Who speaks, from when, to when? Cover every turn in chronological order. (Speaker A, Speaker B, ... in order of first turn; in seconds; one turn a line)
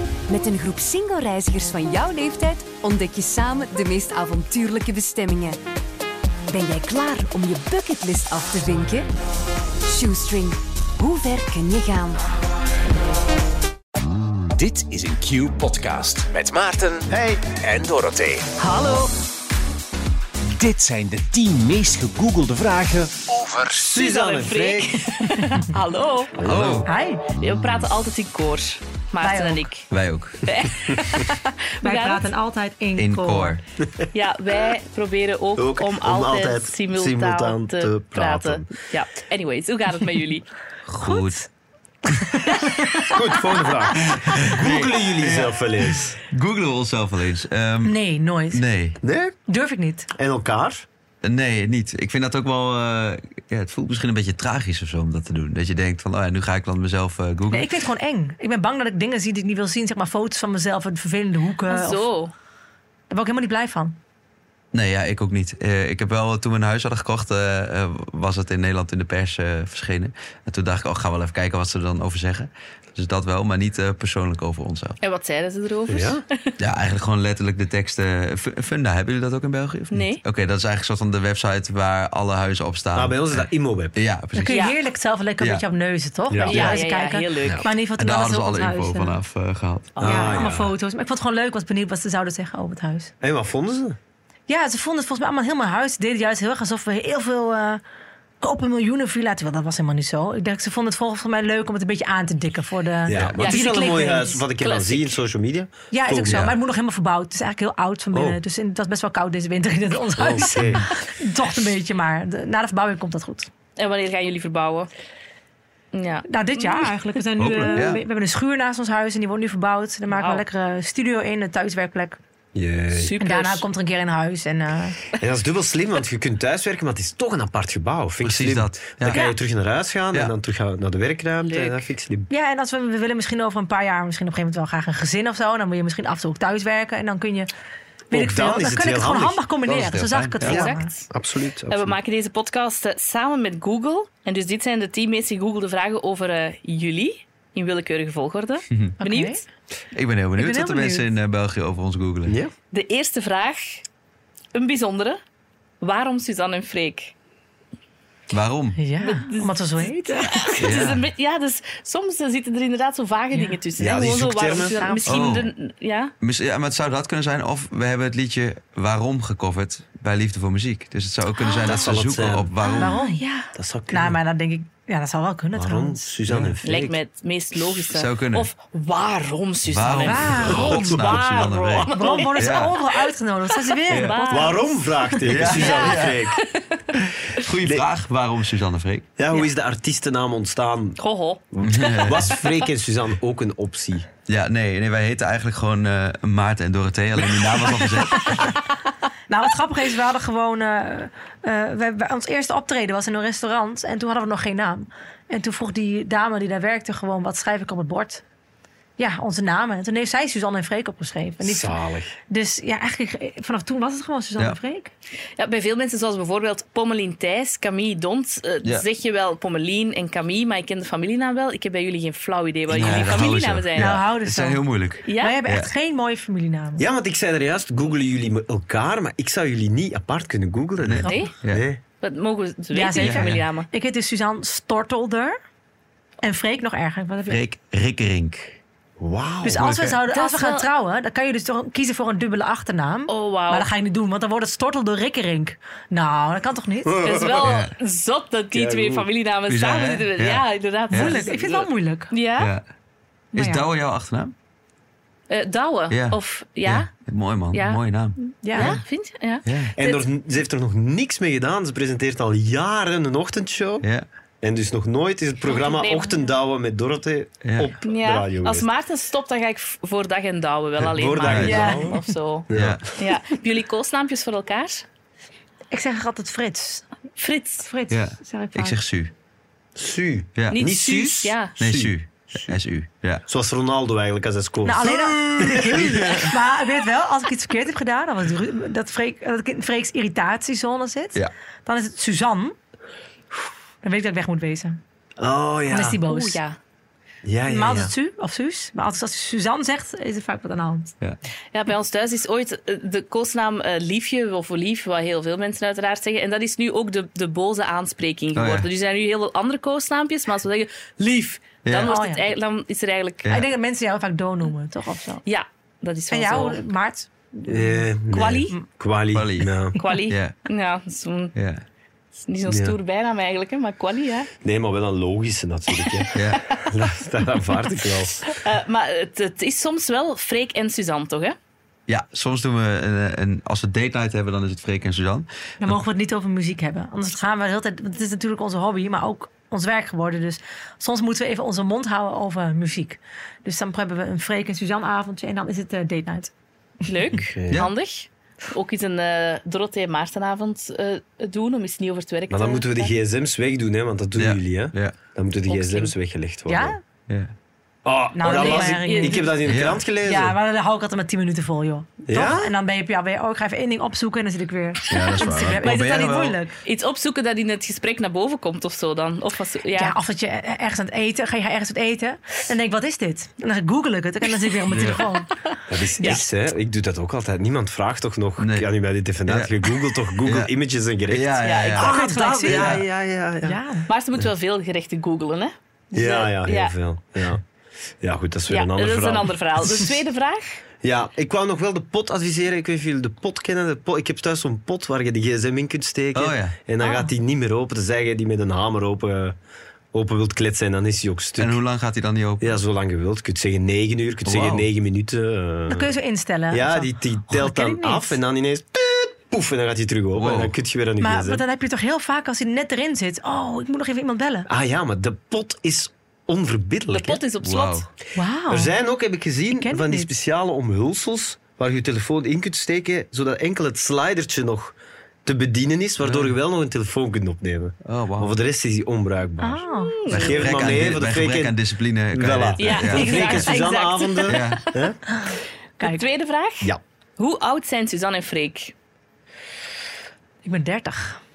Speaker A: 0.3-5.6
Speaker A: 6.5-9.1
Speaker A: 9.9-12.2
Speaker B: 14.0-18.6
Speaker C: 17.1-17.4
Speaker A: 18.6-19.1
Speaker B: 20.5-23.8
Speaker C: 23.8-25.0
Speaker D: 23.9-26.4
Speaker C: 26.4-26.9
Speaker E: 26.4-26.9
Speaker F: 26.8-27.2
Speaker D: 27.4-29.9
Speaker F: 29.2-29.7
Speaker E: 29.9-30.5
Speaker D: 30.4-32.3
Speaker F: 31.8-33.6
Speaker E: 33.0-33.6
Speaker C: 33.8-34.1
Speaker D: 34.1-40.5
Speaker C: 35.6-38.7
Speaker E: 40.9-41.4
Speaker F: 41.0-41.5
Speaker F: 42.1-43.1
Speaker C: 43.0-46.2
Speaker E: 43.9-48.0
Speaker F: 47.8-48.6
Speaker E: 48.5-49.0
Speaker C: 49.0-49.3
Speaker F: 49.5-50.1
Speaker C: 50.1-50.9
Speaker E: 51.2-57.7
Speaker F: 57.5-62.1
Speaker D: 61.7-62.3
Speaker F: 63.1-64.0
Speaker E: 64.7-75.0
Speaker D: 75.0-76.5
Speaker C: 75.9-76.2
Speaker E: 76.6-84.7
Speaker D: 79.9-80.2
Speaker C: 82.9-84.0
Speaker F: 84.3-89.2
Speaker D: 84.5-84.8
Speaker C: 86.3-86.8
Speaker D: 86.4-87.7
Speaker E: 87.9-90.0
Speaker D: 89.9-90.5
Speaker C: 90.0-90.7
Speaker F: 90.0-93.1
Speaker C: 93.2-94.0
Speaker F: 94.5-97.8
Speaker F: 98.4-104.4
Speaker C: 103.1-106.5
Speaker E: 103.1-103.4
Speaker D: 103.4-105.2
Speaker F: 105.9-113.5
Speaker E: 106.2-106.5
Speaker C: 108.1-108.4
Speaker C: 110.1-110.9
Speaker D: 113.8-114.9
Speaker D: 115.9-117.2
Speaker F: 116.3-122.2
Speaker E: 117.4-118.0
Speaker D: 120.1-120.4
Speaker C: 122.5-123.1
Speaker D: 122.9-123.6
Speaker F: 123.2-125.0
Speaker C: 125.2-132.3
Speaker E: 128.2-129.2
Speaker F: 129.1-129.4
Speaker D: 131.4-131.8
Speaker F: 132.3-137.5
Speaker F: 138.1-140.9
Speaker C: 138.1-142.0
Speaker E: 139.7-140.6
Speaker D: 140.4-141.1
Speaker D: 141.7-149.4
Speaker F: 149.0-149.4
Speaker E: 149.9-152.4
Speaker F: 150.4-151.1
Speaker C: 152.3-152.5
Speaker D: 152.7-153.8
Speaker D: 154.5-155.2
Speaker D: 155.8-157.1
Speaker E: 158.3-158.8
Speaker F: 158.8-160.6
Speaker D: 159.0-166.1
Speaker E: 160.6-161.1
Speaker F: 163.3-163.6
Speaker C: 163.8-164.8
Speaker F: 164.5-165.4
Speaker E: 165.1-165.5
Speaker E: 166.2-173.0
Speaker D: 171.4-171.8
Speaker C: 171.6-172.5
Speaker D: 172.6-173.5
Speaker F: 172.7-173.2
Speaker C: 173.5-174.2
Speaker F: 173.9-176.2
Speaker C: 175.6-177.0
Speaker E: 176.2-176.6
Speaker D: 176.6-183.0
Speaker E: 177.9-178.5
Speaker E: 179.7-182.8
Speaker F: 179.9-181.2
Speaker C: 180.4-181.5
Speaker F: 181.8-185.5
Speaker D: 183.6-187.0
Speaker C: 183.9-186.4
Speaker E: 185.2-186.2
Speaker E: 187.3-189.1
Speaker C: 189.2-191.0
Speaker D: 191.0-192.7
Speaker C: 191.5-194.1
Speaker E: 191.6-192.3
Speaker E: 194.3-198.6
Speaker F: 198.1-198.6
Speaker F: 199.3-208.2
Speaker F: 209.0-211.8
Speaker C: 211.4-212.2
Speaker F: 212.3-214.9
Speaker D: 215.4-224.0
Speaker E: 222.7-225.7
Speaker C: 222.8-223.1
Speaker F: 223.8-226.9
Speaker D: 225.1-225.4
Speaker C: 226.8-231.8
Speaker E: 230.8-231.7
Speaker F: 230.9-231.4
Speaker D: 231.1-231.3
Speaker D: 232.0-233.7
Speaker F: 232.7-235.4
Speaker E: 233.0-233.4
Speaker F: 236.2-237.4
Speaker E: 237.3-238.6
Speaker C: 239.0-239.7
Speaker F: 239.4-247.0
Speaker E: 239.6-240.0
Speaker D: 240.1-240.7
Speaker D: 243.1-243.7
Speaker C: 246.8-247.6
Speaker D: 247.0-252.5
Speaker E: 247.4-247.7
Speaker C: 248.5-249.1
Speaker E: 249.5-251.3
Speaker F: 250.9-252.1
Speaker E: 252.4-252.6
Speaker F: 253.3-253.7
Speaker E: 253.3-254.3
Speaker D: 255.3-256.9
Speaker E: 255.9-258.7
Speaker D: 257.5-260.0
Speaker F: 258.4-258.8
Speaker E: 259.4-259.7
Speaker C: 259.8-263.9
Speaker C: 264.4-268.7
Speaker D: 265.4-266.1
Speaker E: 267.4-267.7
Speaker D: 267.8-274.8
Speaker C: 270.8-272.0
Speaker E: 271.2-271.7
Speaker F: 271.4-272.1
Speaker C: 272.5-272.8
Speaker E: 272.5-272.9
Speaker F: 275.7-276.8
Speaker D: 277.2-277.7
Speaker F: 277.6-278.8
Speaker E: 277.9-279.1
Speaker C: 279.8-281.9
Speaker E: 280.4-280.6
Speaker D: 280.5-281.6
Speaker E: 281.6-283.2
Speaker C: 283.3-286.4
Speaker F: 284.6-292.5
Speaker F: 293.8-294.8
Speaker C: 295.2-296.0
Speaker F: 295.7-296.4
Speaker D: 296.1-296.6
Speaker C: 297.2-297.9
Speaker F: 297.4-300.9
Speaker D: 301.5-313.3
Speaker E: 308.4-308.6
Speaker E: 311.6-311.9
Speaker F: 311.8-312.2
Speaker F: 313.2-315.2
Speaker D: 315.2-316.6
Speaker F: 316.1-317.9
Speaker C: 317.5-319.8
Speaker D: 318.1-318.6
Speaker E: 319.1-319.5
Speaker D: 319.8-321.3
Speaker E: 320.1-320.3
Speaker E: 321.4-321.6
Speaker D: 322.3-324.3
Speaker C: 322.4-322.8
Speaker C: 324.4-328.3
Speaker D: 325.8-326.6
Speaker E: 326.1-326.4
Speaker D: 328.2-331.4
Speaker E: 331.9-335.7
Speaker F: 335.6-346.3
Speaker D: 346.9-352.9
Speaker C: 347.2-347.7
Speaker C: 352.3-356.8
Speaker E: 354.2-354.9
Speaker D: 355.5-355.9
Speaker F: 356.5-356.8
Speaker C: 357.8-360.4
Speaker F: 358.1-359.4
Speaker D: 358.2-359.4
Speaker E: 359.4-359.8
Speaker F: 360.0-366.5
Speaker C: 362.1-362.5
Speaker E: 364.9-366.4
Speaker D: 365.2-369.9
Speaker F: 369.8-375.3
Speaker D: 374.5-376.2
Speaker E: 374.7-375.0
Speaker C: 375.7-383.6
Speaker E: 378.4-378.7
Speaker E: 379.2-379.5
Speaker E: 380.2-380.5
Speaker E: 381.1-382.8
Speaker D: 381.4-382.5
Speaker F: 381.8-382.8
Speaker F: 383.4-383.9
Speaker D: 383.9-386.7
Speaker C: 385.9-387.4
Speaker C: 388.0-389.4
Speaker D: 388.5-390.6
Speaker C: 390.8-399.4
Speaker E: 396.1-396.5
Speaker F: 396.8-397.1
Speaker C: 399.9-401.6
Speaker E: 401.4-402.6
Speaker C: 402.4-405.9
Speaker E: 404.2-404.6
Speaker F: 405.7-408.2
Speaker C: 406.5-411.4
Speaker E: 410.1-410.5
Speaker F: 411.0-414.5
Speaker C: 414.5-417.2
Speaker D: 416.9-417.9
Speaker E: 417.4-417.9
Speaker F: 418.1-418.7
Speaker C: 418.5-431.6
Speaker F: 419.5-420.1
Speaker E: 426.0-426.3
Speaker E: 427.8-428.3
Speaker F: 429.4-430.0
Speaker D: 429.8-430.5
Speaker E: 430.1-433.7
Speaker C: 432.1-435.0
Speaker D: 432.6-434.9
Speaker E: 434.3-434.6
Speaker F: 435.1-436.0
Speaker D: 435.8-438.7
Speaker F: 440.4-441.2